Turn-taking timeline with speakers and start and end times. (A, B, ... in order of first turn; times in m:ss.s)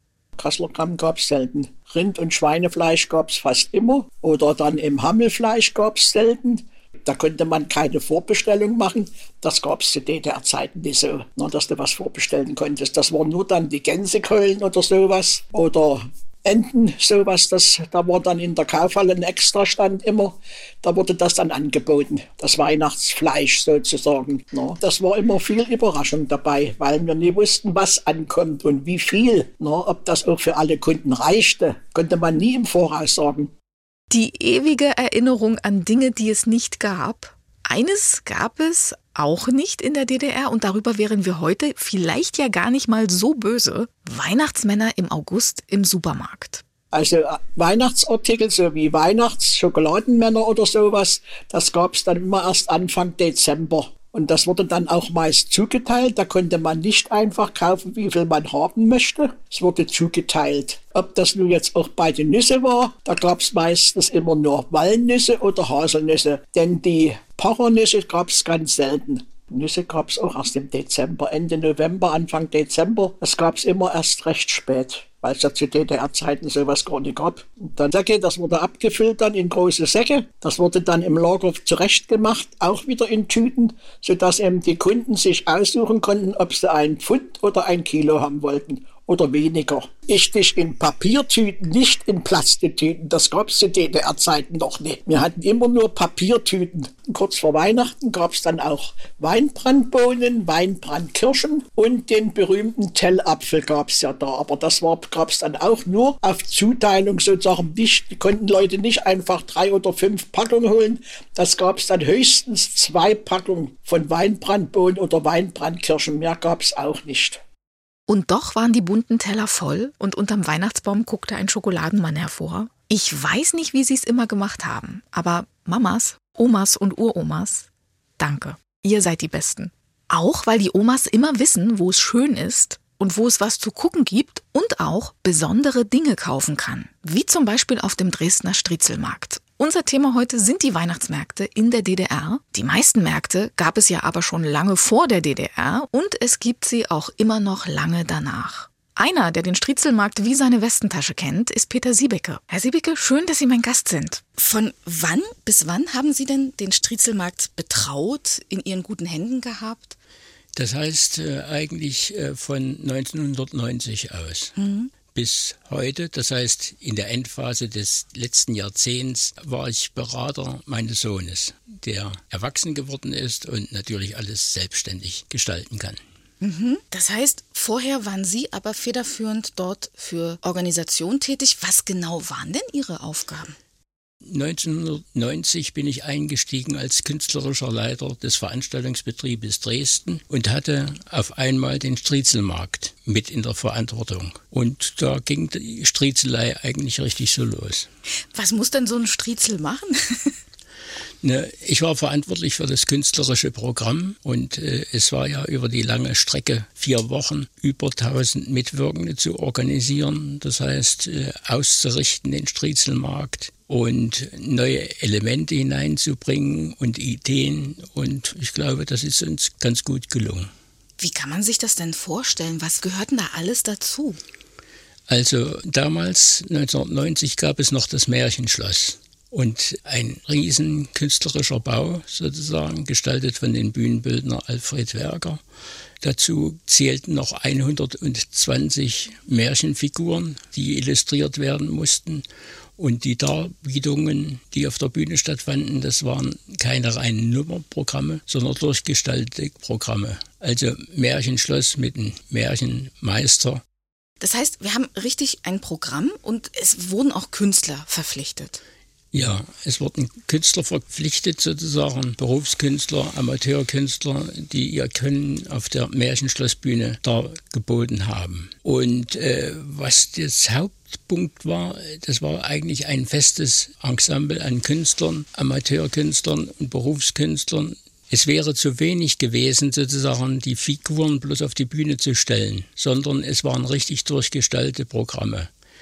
0:00.4-0:33.5 A
0:34.1-0:46.6 B
0:46.9-1:57.4 A
1:58.1-2:07.7 B
2:08.2-2:40.0 B
2:40.5-2:44.5 C
2:44.6-2:44.9 B
2:45.1-2:56.0 C
2:56.4-3:03.6 B
3:04.2-3:17.9 C
3:18.3-3:20.4 B
3:21.2-3:40.5 C
3:41.0-3:44.2 B
3:45.1-3:55.4 C
3:56.0-4:02.2 C
4:02.8-4:13.6 C
4:14.2-4:18.6 B
4:19.1-4:45.5 C